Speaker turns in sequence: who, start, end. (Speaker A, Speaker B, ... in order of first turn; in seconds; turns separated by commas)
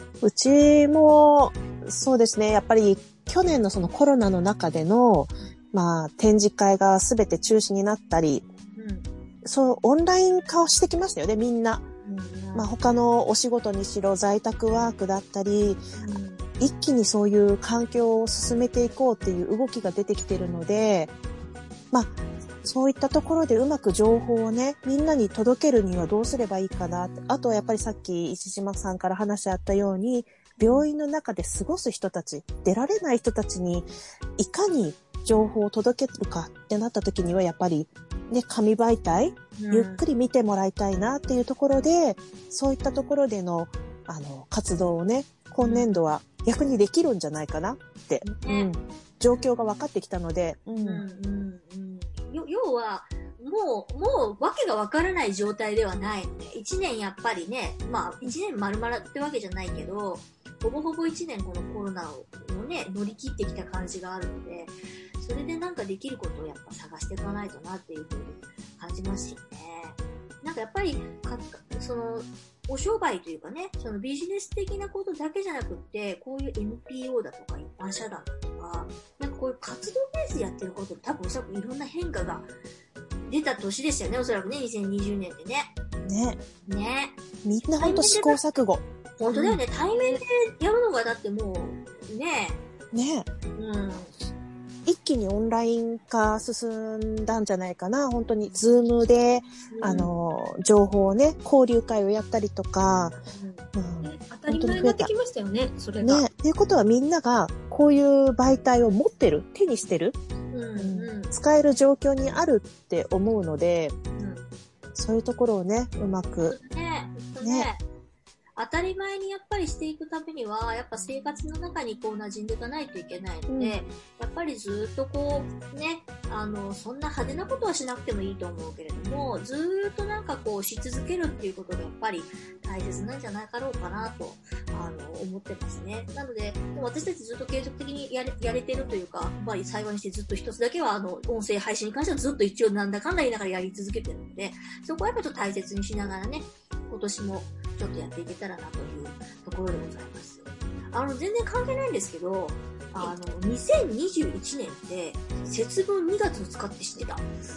Speaker A: 0.2-8.4, Speaker B: 8.7-9.1, Speaker A: 9.4-11.8, Speaker B: 12.0-12.7, Speaker A: 12.5-21.1, Speaker B: 16.0-16.5, Speaker A: 21.9-51.0, Speaker B: 30.6-30.9, Speaker B: 39.6-40.0, Speaker B: 45.6-45.9, Speaker B: 48.2-48.7, Speaker B: 50.8-82.5, Speaker B: 83.2-85.7, Speaker A: 86.0-86.4, Speaker B: 86.7-87.2, Speaker A: 87.4-88.8, Speaker B: 87.7-88.4, Speaker B: 89.2-92.6, Speaker C: 89.3-90.2, Speaker A: 92.9-93.3, Speaker B: 93.5-94.1, Speaker A: 94.8-103.2, Speaker B: 99.7-100.1, Speaker C: 99.8-100.1, Speaker B: 103.3-103.7, Speaker A: 103.7-105.1, Speaker C: 104.0-106.2, Speaker A: 106.0-110.2, Speaker B: 110.5-111.3, Speaker A: 110.8-114.0, Speaker B: 114.2-114.5, Speaker A: 114.9-116.6, Speaker B: 116.5-117.8, Speaker A: 117.4-117.7, Speaker B: 118.5-157.2, Speaker A: 123.5-123.8